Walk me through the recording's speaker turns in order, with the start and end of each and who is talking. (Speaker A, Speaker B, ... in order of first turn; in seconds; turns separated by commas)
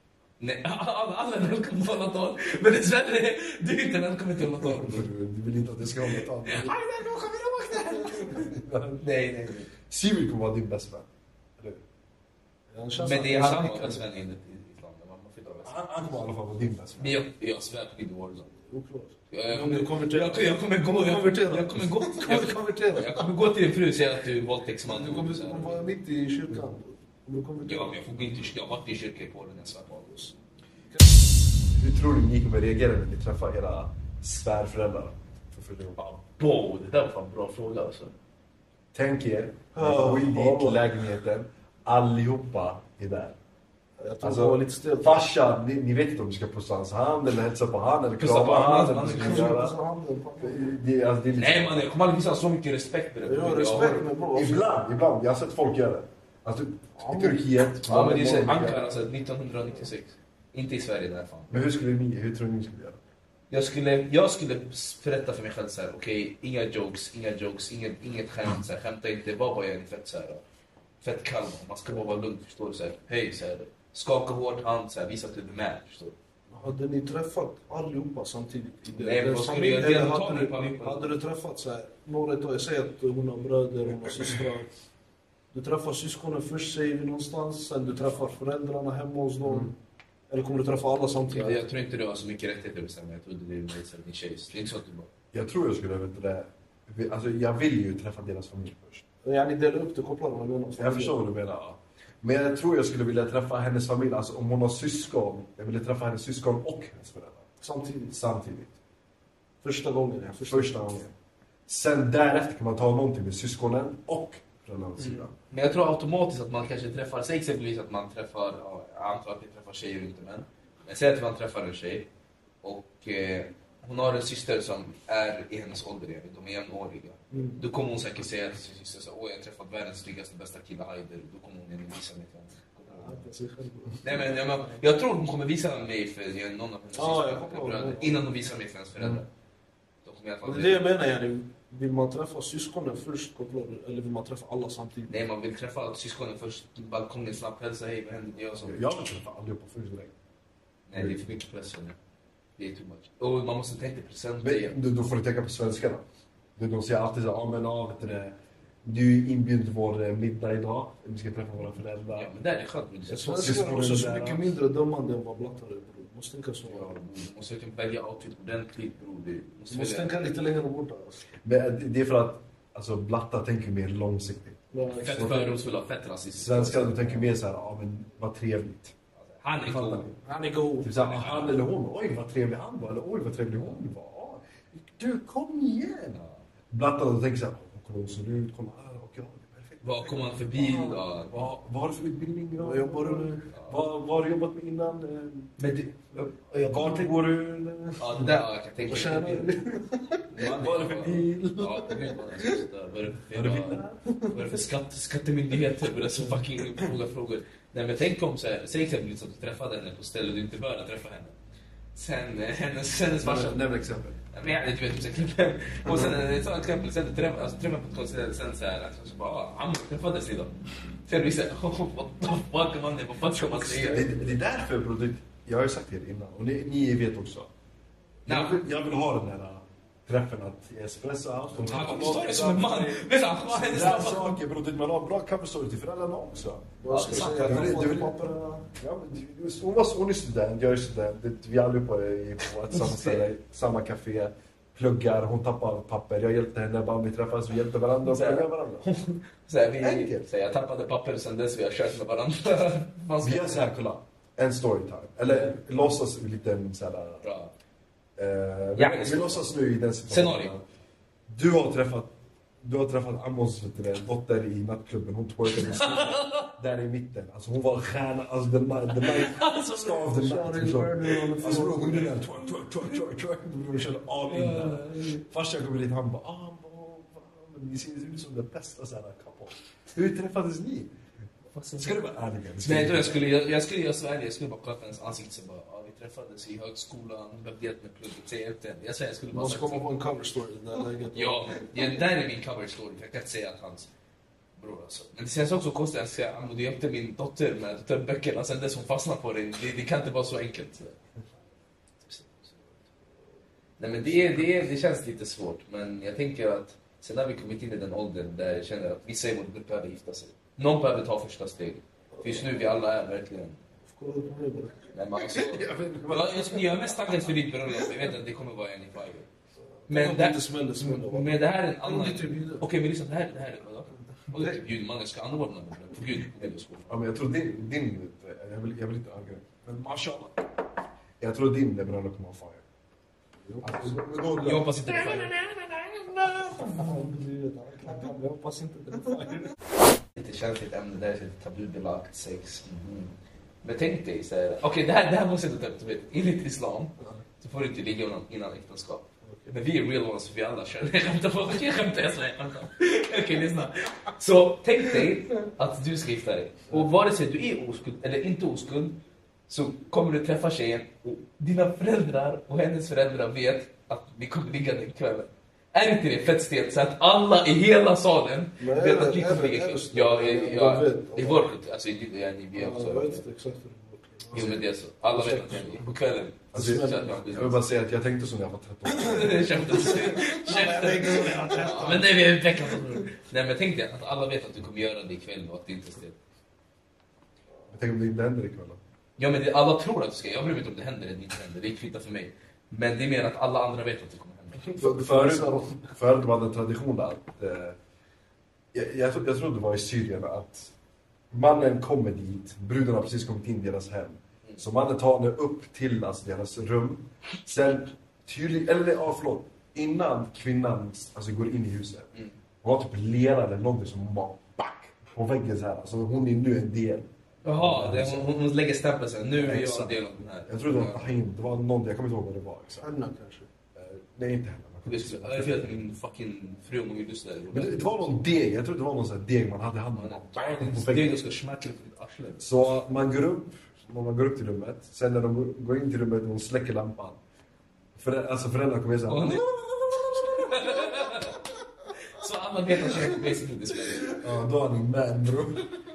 Speaker A: 0.4-5.1, Speaker B: 4.7-7.0, Speaker A: 6.1-9.7, Speaker B: 8.0-9.0, Speaker B: 9.8-11.1, Speaker B: 11.6-11.8, Speaker C: 12.7-14.1, Speaker A: 13.0-16.2, Speaker B: 15.6-17.2, Speaker A: 17.0-18.5, Speaker C: 18.7-23.3, Speaker A: 19.3-25.9, Speaker C: 24.9-28.4, Speaker A: 27.6-30.3, Speaker B: 31.7-36.0, Speaker A: 36.0-38.1, Speaker B: 38.9-43.4, Speaker C: 39.8-40.8, Speaker C: 44.0-45.2, Speaker B: 44.2-49.8, Speaker A: 48.2-49.6, Speaker C: 49.0-50.7, Speaker B: 50.4-51.9, Speaker A: 51.4-54.0, Speaker C: 53.2-54.7, Speaker B: 54.3-58.8, Speaker C: 57.0-57.4, Speaker A: 57.9-61.5, Speaker B: 61.5-63.0, Speaker A: 63.5-70.4, Speaker A: 71.0-76.2, Speaker C: 76.5-84.7, Speaker A: 79.0-81.1, Speaker C: 85.5-89.7, Speaker C: 90.3-91.6, Speaker A: 91.3-95.1, Speaker B: 95.3-99.0, Speaker C: 99.2-101.2, Speaker B: 100.8-107.5, Speaker C: 107.6-108.1, Speaker B: 108.1-108.8, Speaker C: 109.6-111.0, Speaker B: 110.5-111.1, Speaker B: 111.7-115.3, Speaker A: 115.0-122.1, Speaker A: 122.6-133.2, Speaker C: 127.3-127.6, Speaker C: 132.9-134.8, Speaker A: 134.0-139.3, Speaker C: 136.9-138.3, Speaker A: 140.1-140.9, Speaker C: 140.4-145.2, Speaker A: 145.1-148.8, Speaker B: 148.6-150.2, Speaker A: 150.9-152.0, Speaker A: 152.6-154.8, Speaker B: 154.4-156.1, Speaker B: 156.6-162.3, Speaker A: 162.1-163.7, Speaker C: 163.1-167.0, Speaker B: 163.4-164.5, Speaker A: 166.7-170.3, Speaker C: 169.7-171.2, Speaker B: 171.4-174.6, Speaker C: 174.7-175.6, Speaker A: 175.0-177.3, Speaker B: 175.1-175.5, Speaker B: 176.4-178.9, Speaker A: 179.3-180.1, Speaker B: 179.6-180.2, Speaker C: 180.2-180.9, Speaker B: 180.8-186.2, Speaker A: 180.9-181.6, Speaker B: 186.7-195.6, Speaker A: 189.8-191.5, Speaker C: 192.6-193.5, Speaker A: 195.6-197.1, Speaker B: 196.6-198.3, Speaker A: 198.0-199.6, Speaker C: 198.8-200.3, Speaker A: 200.3-211.3, Speaker B: 200.4-202.1, Speaker B: 203.3-204.4, Speaker A: 211.9-213.6, Speaker B: 213.2-214.2, Speaker A: 214.3-220.5, Speaker A: 221.1-224.3, Speaker B: 223.6-227.5, Speaker A: 228.3-228.6, Speaker B: 228.3-238.1, Speaker A: 231.6-234.4, Speaker C: 236.8-238.7, Speaker A: 236.9-237.8, Speaker B: 238.8-248.9, Speaker A: 242.7-243.3, Speaker A: 248.1-253.7, Speaker B: 249.8-250.2, Speaker B: 253.2-257.2, Speaker A: 255.3-255.6, Speaker A: 257.2-257.5, Speaker B: 258.2-260.6, Speaker A: 258.8-259.5, Speaker A: 260.1-260.5, Speaker B: 261.3-280.9, Speaker A: 265.6-266.5, Speaker A: 268.9-270.1, Speaker C: 270.1-272.1, Speaker A: 274.3-275.2, Speaker A: 281.5-282.0, Speaker B: 281.8-283.2, Speaker A: 282.6-289.9, Speaker C: 289.3-291.9, Speaker A: 291.1-293.9, Speaker A: 294.6-301.0, Speaker A: 302.1-302.6, Speaker A: 303.8-313.6, Speaker C: 313.9-314.9, Speaker A: 314.9-319.3, Speaker B: 315.2-317.3, Speaker C: 319.9-321.3, Speaker A: 319.9-326.9, Speaker C: 321.8-322.6, Speaker B: 326.9-330.5, Speaker B: 331.2-332.6, Speaker C: 333.4-334.0, Speaker B: 333.6-336.8, Speaker A: 334.4-335.4, Speaker C: 336.6-339.5, Speaker A: 340.2-373.2, Speaker C: 368.6-371.5, Speaker C: 372.6-375.8, Speaker A: 374.3-377.6, Speaker B: 376.5-380.0, Speaker C: 376.6-377.2, Speaker A: 378.9-386.2, Speaker C: 379.8-382.2, Speaker B: 387.7-388.8, Speaker A: 389.2-394.7, Speaker C: 394.6-395.8, Speaker B: 394.8-397.8, Speaker B: 398.7-400.7, Speaker B: 401.3-412.1, Speaker B: 412.6-418.3, Speaker A: 417.4-421.1, Speaker B: 419.4-422.9, Speaker C: 422.8-423.5, Speaker B: 423.8-425.7, Speaker A: 424.9-428.1, Speaker B: 427.5-431.1, Speaker A: 429.9-432.5, Speaker B: 432.4-437.2, Speaker B: 438.0-439.5, Speaker A: 439.1-441.5, Speaker A: 442.1-444.2, Speaker B: 444.1-445.8